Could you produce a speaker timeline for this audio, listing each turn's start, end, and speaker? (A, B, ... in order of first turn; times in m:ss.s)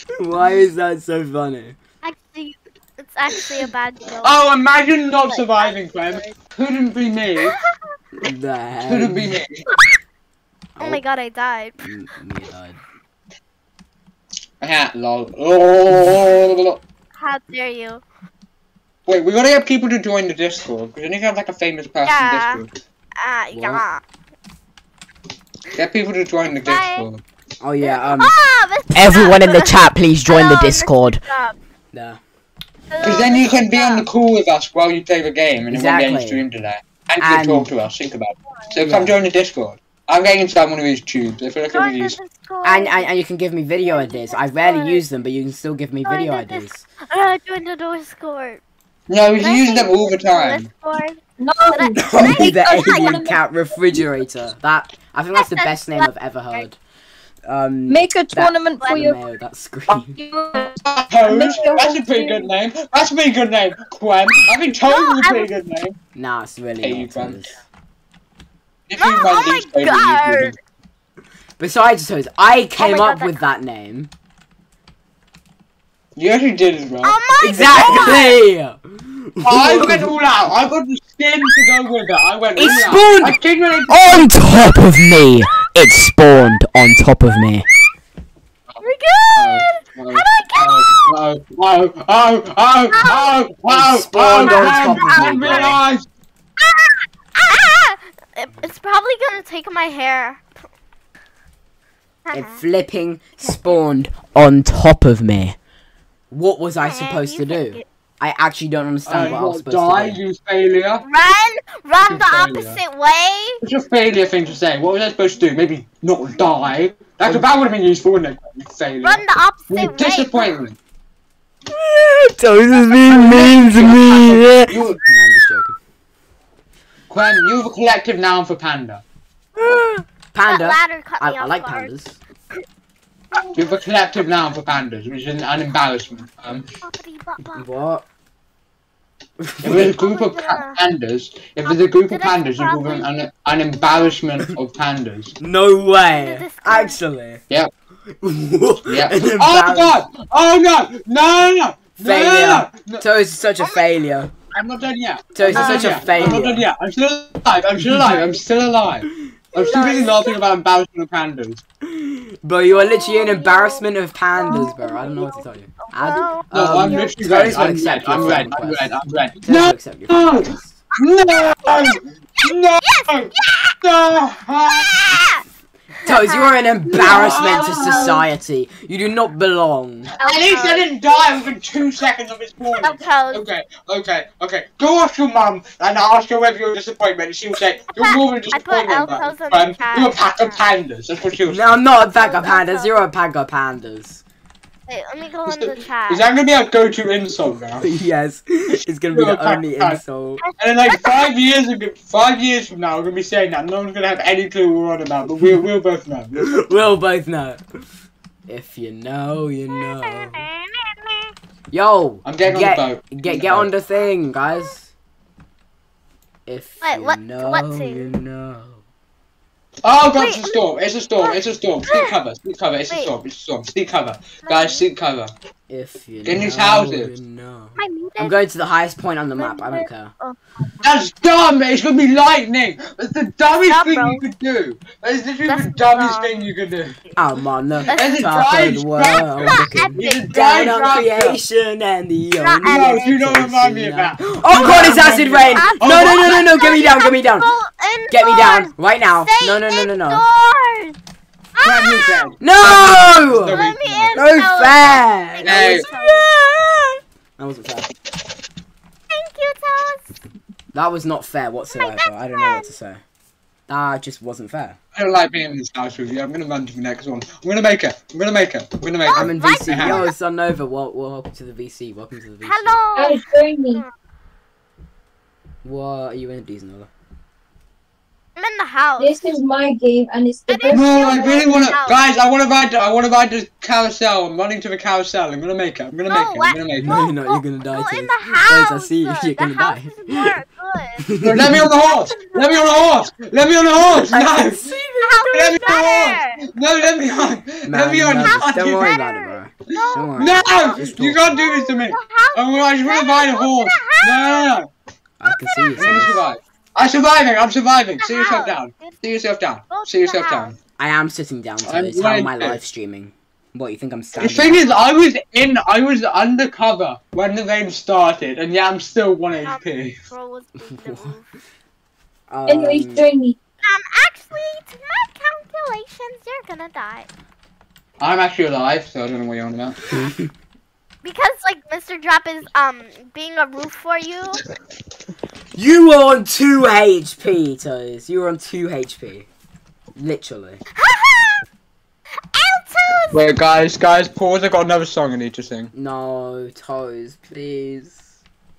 0:00.2-0:01.8 A
0:02.0-0:04.4 B
0:04.2-0:07.6 C
0:05.3-0:06.3 B
0:07.4-0:07.8 B
0:08.2-0:09.3 A
0:08.9-0:09.6 C
0:10.8-0:11.0 A
0:10.8-0:11.8 B
0:11.8-0:12.8 A
0:14.6-0:16.8 C
0:17.2-0:18.0 B
0:19.1-0:22.7 C
0:22.0-0:22.6 B
0:23.2-0:24.0 B
0:23.5-0:23.9 A
0:25.7-0:27.2 C
0:26.6-0:27.1 B
0:27.6-0:28.4 A
0:27.8-0:31.6 B
0:28.9-0:31.2 A
0:31.9-0:32.2 A
0:32.9-0:34.0 B
0:33.0-0:42.2 C
0:35.7-0:36.4 A
0:37.2-0:37.7 A
0:38.8-0:39.2 A
0:41.7-0:43.1 B
0:42.6-0:46.9 A
0:43.8-0:45.0 B
0:46.1-0:48.6 B
0:49.1-0:50.7 C
0:49.4-0:51.2 B
0:51.4-0:53.4 D
0:51.7-0:53.2 B
0:52.0-0:56.8 A
0:55.4-0:56.6 B
0:57.5-1:00.2 A
0:57.9-0:59.2 D
0:58.8-0:59.1 B
1:00.2-1:02.5 D
1:00.8-1:06.0 C
1:04.8-1:05.5 B
1:06.2-1:07.6 A
1:06.8-1:07.5 C
1:08.9-1:10.6 C
1:09.0-1:10.6 B
1:11.6-1:14.1 A
1:12.8-1:13.4 B
1:16.2-1:17.2 C
1:17.0-1:18.4 B
1:17.4-1:20.1 A
1:19.4-1:24.3 C
1:22.6-1:23.4 A
1:23.9-1:27.7 A
1:28.8-1:31.1 B
1:29.4-1:36.1 C
1:32.9-1:33.4 B
1:33.7-1:35.8 A
1:34.4-1:35.8 B
1:36.6-1:40.5 B
1:42.3-1:42.6 B
1:42.3-1:45.6 A
1:43.4-1:43.8 B
1:46.3-1:50.2 A
1:46.8-1:47.9 B
1:49.1-1:51.0 C
1:51.0-1:53.6 B
1:52.0-1:52.8 C
1:53.6-2:00.8 C
1:59.0-2:00.5 B
2:01.7-2:05.8 A
2:03.1-2:05.0 C
2:07.1-2:09.0 C
2:09.6-2:11.9 B
2:10.3-2:12.2 A
2:13.3-2:13.8 B
2:13.5-2:16.7 C
2:16.8-2:17.7 B
2:17.6-2:18.1 A
2:19.4-2:19.9 A
2:19.6-2:25.3 C
2:19.7-2:20.8 B
2:21.7-2:23.1 B
2:23.8-2:24.2 B
2:25.4-2:27.4 A
2:26.1-2:27.0 B
2:28.2-2:30.0 A
2:28.9-2:33.1 C
2:32.0-2:34.3 A
2:33.6-2:33.9 B
2:34.5-2:41.6 C
2:35.4-2:36.7 A
2:35.5-2:36.4 B
2:39.5-2:40.4 B
2:41.9-2:50.8 A
2:42.7-2:43.9 B
2:44.4-2:48.2 B
2:46.5-2:55.0 C
2:51.3-2:53.8 B
2:54.6-2:55.4 B
2:56.0-3:00.1 A
2:56.0-2:58.2 B
2:56.9-2:58.2 C
3:00.2-3:01.5 B
3:00.2-3:11.8 C
3:02.8-3:03.4 B
3:07.8-3:10.6 B
3:11.5-3:14.2 A
3:12.2-3:13.1 B
3:14.9-3:16.3 B
3:15.5-3:17.9 C
3:17.8-3:20.4 A
3:19.1-3:20.0 C
3:20.5-3:21.3 B
3:20.6-3:26.6 C
3:26.4-3:27.6 A
3:28.5-3:30.5 A
3:29.7-3:31.3 B
3:31.7-3:34.9 A
3:32.2-3:33.7 C
3:33.3-3:34.1 B
3:36.5-3:38.8 A
3:36.8-3:38.1 B
3:39.8-3:45.3 C
3:40.2-3:40.6 B
3:41.2-3:42.2 B
3:44.4-3:44.8 B
3:45.7-3:50.1 A
3:46.2-3:47.1 C
3:47.8-3:48.4 B
3:49.4-3:50.9 B
3:50.8-3:57.0 C
3:53.7-3:54.2 B
3:55.5-3:56.3 B
3:57.2-4:07.5 A
3:57.9-4:01.4 C
3:57.9-4:00.3 B
4:02.4-4:03.2 B
4:02.6-4:06.8 C
4:05.4-4:11.0 B
4:08.1-4:10.3 A
4:11.6-4:12.3 B
4:11.6-4:14.2 C
4:12.4-4:17.9 A
4:13.4-4:16.3 B
4:15.4-4:15.9 C
4:19.1-4:20.0 B
4:20.7-4:23.0 A
4:21.7-4:22.7 B
4:23.7-4:24.8 A
4:25.0-4:30.1 C
4:29.0-4:30.1 B
4:29.1-4:32.8 A
4:32.4-4:33.9 B
4:33.0-4:33.8 D
4:35.6-4:36.9 A
4:38.4-4:39.2 B
4:39.0-4:41.6 D
4:40.5-4:42.1 B
4:40.7-4:47.1 C
4:46.1-4:51.2 B
4:46.8-4:50.4 A
4:51.0-4:51.6 A
4:51.2-4:54.7 C
4:51.8-4:53.1 B
4:53.8-4:55.3 A
4:55.0-4:56.4 B
4:55.3-4:59.0 C
4:57.7-5:01.4 A
4:58.8-5:04.5 B
4:59.7-5:04.7 C
5:05.2-5:06.2 A
5:05.8-5:10.6 C
5:08.0-5:09.0 B
5:09.7-5:10.6 B
5:10.8-5:14.6 A
5:11.7-5:12.6 C
5:14.2-5:20.1 C
5:19.4-5:21.3 B
5:20.7-5:21.1 A
5:22.3-5:23.1 A
5:22.5-5:23.4 D
5:23.6-5:27.1 B
5:28.0-5:29.8 C
5:29.9-5:30.3 A
5:31.0-5:34.4 B
5:35.6-5:39.3 A
5:40.0-5:40.6 A
5:40.8-5:41.4 B
5:42.3-5:43.3 B
5:43.1-5:45.7 C
5:45.7-5:48.0 A